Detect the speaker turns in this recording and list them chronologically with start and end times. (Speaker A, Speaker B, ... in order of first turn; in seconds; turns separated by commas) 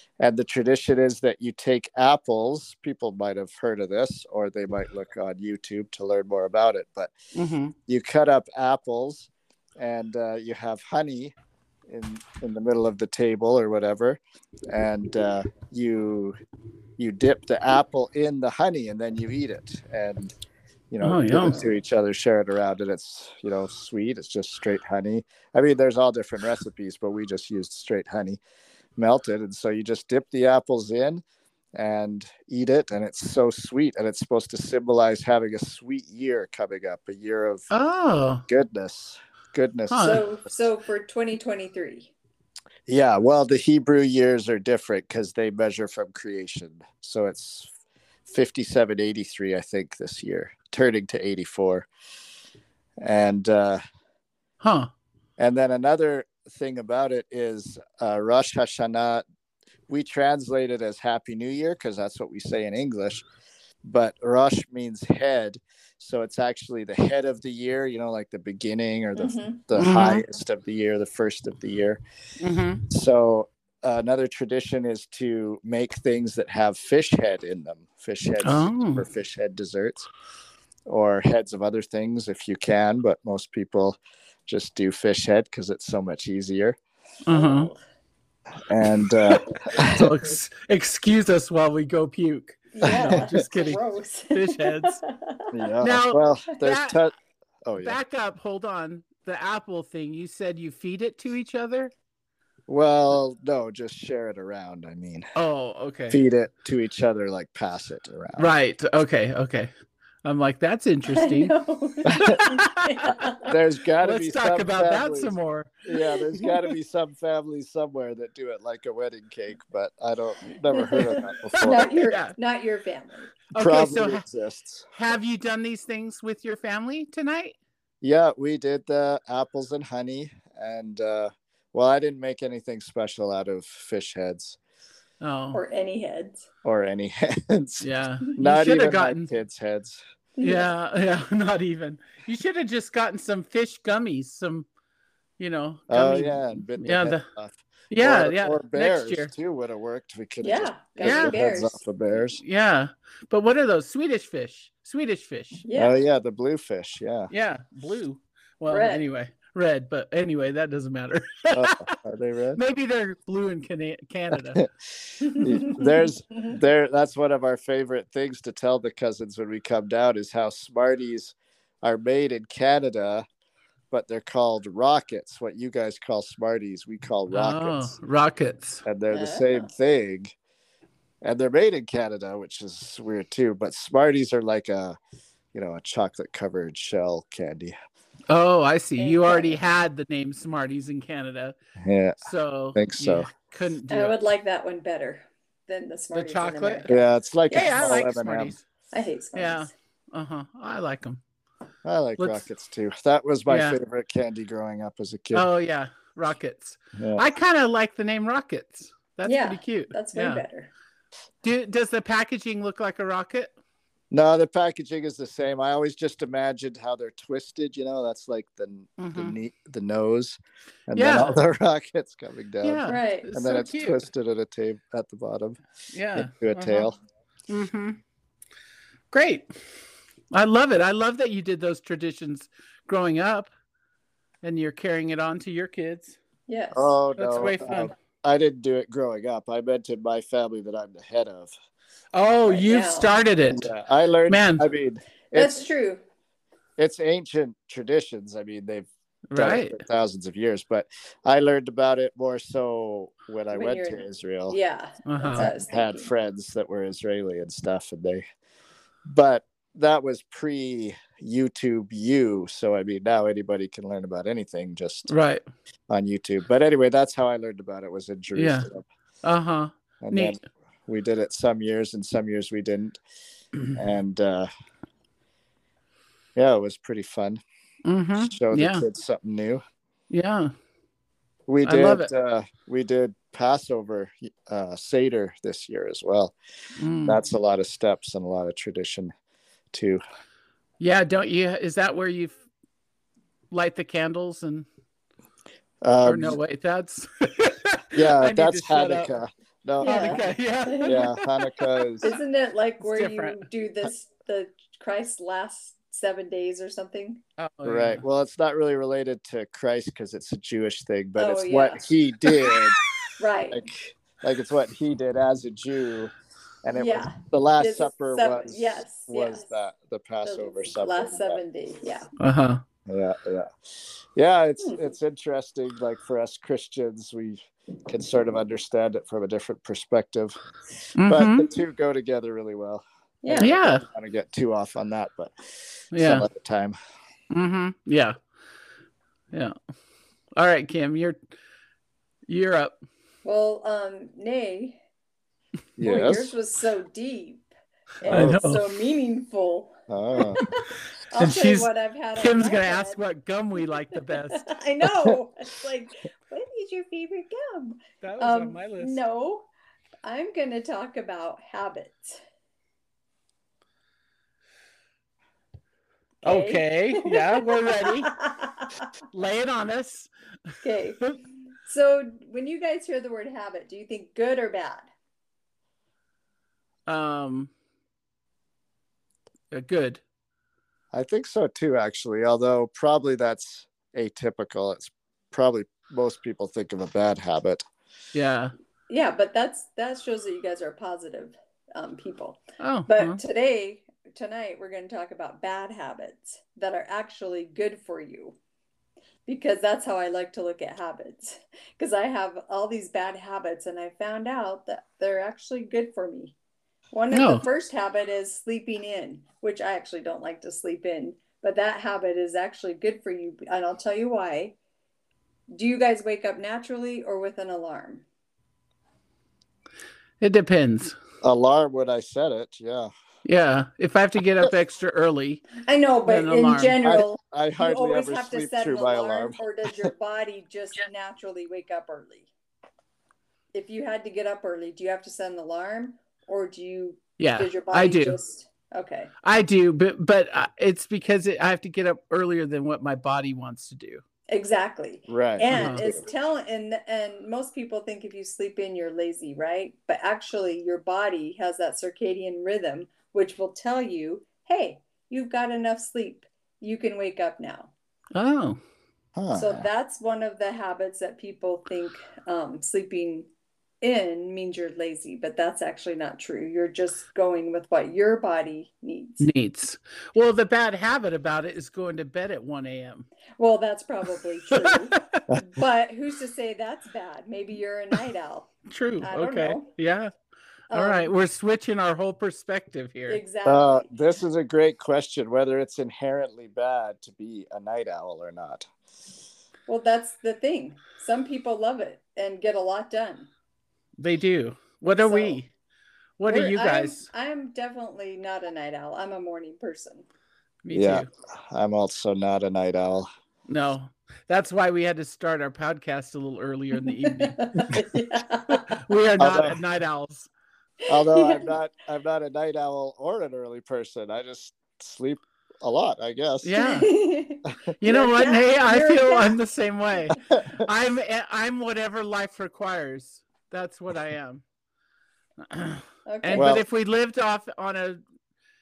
Speaker A: 0.2-7.1, Speaker B: 7.3-7.8, Speaker A: 7.9-11.3, Speaker A: 11.9-16.4, Speaker A: 17.0-20.3, Speaker A: 20.9-28.4, Speaker B: 21.0-21.6, Speaker A: 29.0-31.2, Speaker A: 31.8-37.7, Speaker B: 37.7-38.4, Speaker A: 38.5-40.3, Speaker B: 39.9-40.2, Speaker C: 40.0-42.1, Speaker A: 42.9-47.7, Speaker A: 48.3-51.9, Speaker A: 53.0-53.8, Speaker B: 54.6-54.9, Speaker A: 55.4-59.2, Speaker A: 59.9-63.3, Speaker A: 63.9-72.0, Speaker C: 69.2-69.6, Speaker B: 69.8-70.2, Speaker B: 72.4-72.8, Speaker A: 72.9-80.1, Speaker B: 78.4-79.0, Speaker A: 80.9-86.8, Speaker B: 87.3-87.7, Speaker C: 87.3-87.8, Speaker A: 88.7-90.1, Speaker B: 89.3-93.8, Speaker C: 92.7-95.5, Speaker A: 92.8-93.3, Speaker B: 94.3-95.0, Speaker A: 95.5-97.1, Speaker B: 95.8-97.0, Speaker A: 97.7-98.0, Speaker B: 97.8-101.9, Speaker A: 102.7-105.3, Speaker B: 105.4-106.2, Speaker A: 106.1-108.5, Speaker B: 108.4-109.7, Speaker B: 110.2-111.5, Speaker C: 111.1-113.5, Speaker A: 112.1-112.4, Speaker B: 112.3-113.1, Speaker A: 113.5-121.9, Speaker B: 114.0-115.7, Speaker C: 115.9-116.5, Speaker C: 120.7-123.3, Speaker B: 121.5-122.3, Speaker B: 123.5-124.2, Speaker A: 123.6-124.9, Speaker B: 124.9-127.5, Speaker A: 128.0-134.6, Speaker B: 135.2-135.6, Speaker C: 135.5-136.4, Speaker A: 136.6-140.0, Speaker B: 137.8-139.3, Speaker C: 140.4-140.7, Speaker B: 140.4-144.7, Speaker B: 145.4-147.2, Speaker A: 145.9-152.4, Speaker B: 147.9-149.3, Speaker C: 150.4-151.8, Speaker B: 151.0-151.3, Speaker B: 152.3-155.7, Speaker C: 155.7-156.0, Speaker A: 155.7-157.3, Speaker B: 157.3-161.9, Speaker C: 158.7-159.0, Speaker A: 161.5-162.6, Speaker B: 162.6-164.6, Speaker A: 164.3-164.7, Speaker C: 165.2-166.6, Speaker A: 165.3-173.2, Speaker A: 173.9-177.9, Speaker B: 177.3-178.8, Speaker A: 178.8-180.3, Speaker C: 179.1-179.7, Speaker A: 181.2-185.0, Speaker A: 185.5-187.8, Speaker B: 188.3-191.6, Speaker C: 189.0-189.6, Speaker A: 191.8-192.2, Speaker B: 192.2-194.2, Speaker A: 192.8-193.3, Speaker C: 193.9-196.9, Speaker B: 196.1-197.0, Speaker A: 196.9-198.5, Speaker C: 197.5-198.0, Speaker B: 197.5-198.6, Speaker C: 198.9-199.7, Speaker B: 199.3-201.2, Speaker A: 201.8-205.5, Speaker B: 202.2-202.4, Speaker B: 203.5-203.8, Speaker B: 205.3-210.4, Speaker A: 207.0-207.2, Speaker C: 209.2-210.7, Speaker B: 211.4-213.5, Speaker A: 214.1-225.6, Speaker B: 219.0-219.4, Speaker B: 220.9-221.4, Speaker B: 222.6-224.0, Speaker C: 222.9-223.3, Speaker B: 225.9-226.9, Speaker A: 226.2-227.0, Speaker B: 227.5-228.0, Speaker B: 229.1-229.5, Speaker B: 230.3-233.5, Speaker B: 234.4-236.2, Speaker C: 236.5-236.9, Speaker A: 236.7-241.5, Speaker B: 237.2-237.9, Speaker B: 242.1-243.7, Speaker C: 242.5-243.1, Speaker A: 243.5-245.6, Speaker B: 244.3-244.6, Speaker C: 245.3-246.0, Speaker A: 246.8-254.6, Speaker B: 249.3-249.8, Speaker C: 253.5-256.1, Speaker B: 255.1-255.5, Speaker A: 255.4-258.2, Speaker A: 259.1-265.1, Speaker B: 265.1-265.4, Speaker A: 265.9-268.9, Speaker B: 268.3-268.7, Speaker B: 269.2-270.4, Speaker A: 270.0-273.0, Speaker A: 273.8-274.5, Speaker A: 276.4-277.4, Speaker B: 277.9-278.8, Speaker A: 278.2-279.6, Speaker B: 280.1-280.5, Speaker A: 281.5-286.4, Speaker B: 281.6-282.1, Speaker B: 286.8-287.2, Speaker A: 287.0-289.1, Speaker A: 289.7-290.0, Speaker B: 290.8-292.4, Speaker B: 293.5-294.7, Speaker A: 295.8-296.4, Speaker B: 296.1-299.1, Speaker A: 297.9-300.3, Speaker C: 299.8-301.0, Speaker B: 299.8-302.1, Speaker A: 300.8-302.1, Speaker C: 302.0-307.2, Speaker B: 302.8-303.4, Speaker B: 307.4-308.0, Speaker A: 307.6-312.8, Speaker C: 311.2-311.9, Speaker C: 313.2-313.7, Speaker A: 313.5-321.4, Speaker C: 316.7-319.5, Speaker C: 320.2-322.1, Speaker B: 322.2-322.6, Speaker A: 322.9-330.4, Speaker C: 324.6-324.9, Speaker B: 331.0-331.5, Speaker A: 331.1-336.8, Speaker C: 333.2-333.6, Speaker B: 333.4-333.8, Speaker B: 335.9-336.3, Speaker B: 337.3-338.2, Speaker B: 340.4-341.2, Speaker B: 342.3-342.8, Speaker C: 343.2-344.8, Speaker A: 345.8-346.3, Speaker C: 345.8-347.5, Speaker C: 348.0-353.0, Speaker B: 348.1-348.6, Speaker A: 348.1-348.4, Speaker A: 349.9-350.4, Speaker B: 351.2-354.5, Speaker C: 353.9-359.5, Speaker B: 358.0-359.0, Speaker C: 360.0-362.2, Speaker B: 366.2-368.2, Speaker C: 366.2-368.8, Speaker B: 369.1-370.1, Speaker C: 370.6-371.0, Speaker C: 371.6-374.9, Speaker B: 376.9-377.5, Speaker B: 379.5-380.0, Speaker A: 380.9-387.6, Speaker B: 388.1-388.5, Speaker C: 388.9-398.4, Speaker B: 392.6-393.2, Speaker C: 399.3-406.4, Speaker C: 406.9-414.6, Speaker B: 407.1-407.4, Speaker C: 415.5-418.1, Speaker B: 420.2-420.9, Speaker A: 421.2-422.9, Speaker B: 423.2-425.4, Speaker C: 425.6-432.3, Speaker B: 426.1-426.8, Speaker A: 426.8-429.9, Speaker C: 433.5-439.1, Speaker B: 437.2-438.2, Speaker B: 439.2-444.0, Speaker C: 444.3-457.7, Speaker A: 445.1-446.0, Speaker B: 445.5-445.9, Speaker B: 458.1-458.6, Speaker A: 459.2-459.7, Speaker C: 459.3-463.3, Speaker C: 463.8-469.3, Speaker B: 469.2-473.1, Speaker C: 473.4-479.7, Speaker B: 474.5-475.2, Speaker B: 478.7-480.1, Speaker C: 480.7-481.1, Speaker B: 480.7-483.2, Speaker C: 483.1-483.9, Speaker A: 483.4-488.7, Speaker C: 489.7-493.3, Speaker B: 494.0-495.5, Speaker C: 494.9-495.4, Speaker B: 496.2-497.1, Speaker C: 496.3-500.1, Speaker B: 500.6-501.1, Speaker A: 500.7-503.1, Speaker B: 503.5-507.7, Speaker C: 506.8-508.8, Speaker B: 508.5-510.3, Speaker A: 509.2-509.6, Speaker A: 510.9-516.6, Speaker C: 511.0-511.5, Speaker B: 516.4-516.9, Speaker C: 516.6-519.4, Speaker B: 517.8-524.4, Speaker B: 525.4-528.0, Speaker C: 526.1-526.6, Speaker A: 526.3-526.6